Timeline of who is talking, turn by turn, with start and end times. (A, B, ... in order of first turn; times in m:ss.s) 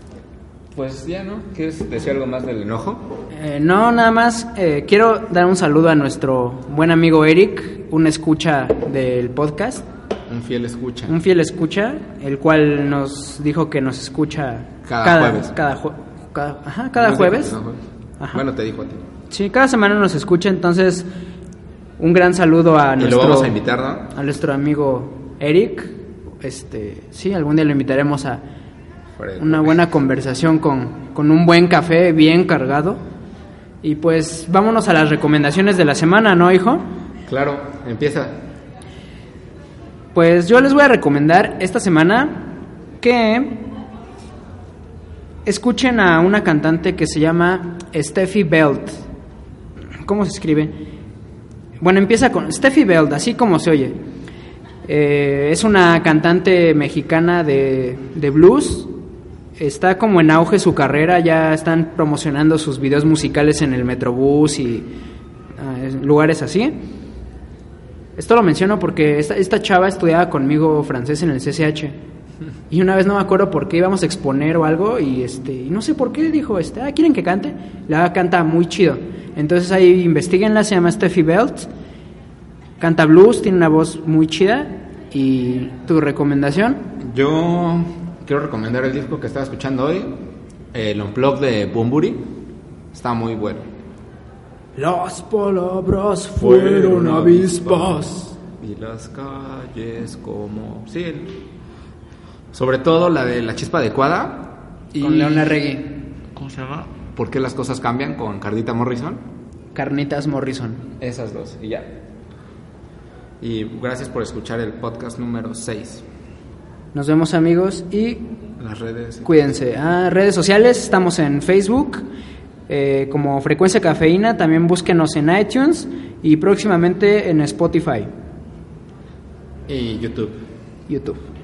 0:00.7-0:03.1 A
0:03.3-0:09.8 B
0:10.3-0:11.1 A
0:11.1-0:17.6 B
0:14.8-0:15.5 A
0:17.0-0:17.8 A
0:18.3-0:19.0 A
0:19.3-0:21.1 B
0:22.0-0:23.6 B
0:23.0-0:24.1 A
0:24.1-0:28.4 B
0:29.2-0:29.7 A
0:29.4-0:33.0 B
0:33.8-0:36.8 B
0:37.3-0:38.4 A
0:40.1-0:43.6 B
0:45.4-0:49.0 B
0:50.0-0:50.7 B
0:51.8-0:53.9 B
0:54.9-0:58.9 B
0:59.6-1:04.9 B
1:05.6-1:06.8 B
1:08.2-1:12.0 B
1:12.7-1:21.7 B
1:22.8-1:26.9 B
1:27.0-1:30.2 A
1:30.7-1:32.2 A
1:32.9-1:33.7 A
1:34.8-1:38.3 B
1:36.4-1:41.4 A
1:42.5-1:45.6 A
1:45.0-1:46.0 B
1:46.3-1:49.2 A
1:49.7-1:50.8 B
1:51.0-1:51.9 A
1:53.4-1:56.0 A
1:56.9-1:58.2 B
1:58.6-1:59.3 A
1:59.2-2:02.0 B
2:02.7-2:08.1 B
2:09.7-2:10.4 A
2:10.9-2:11.2 B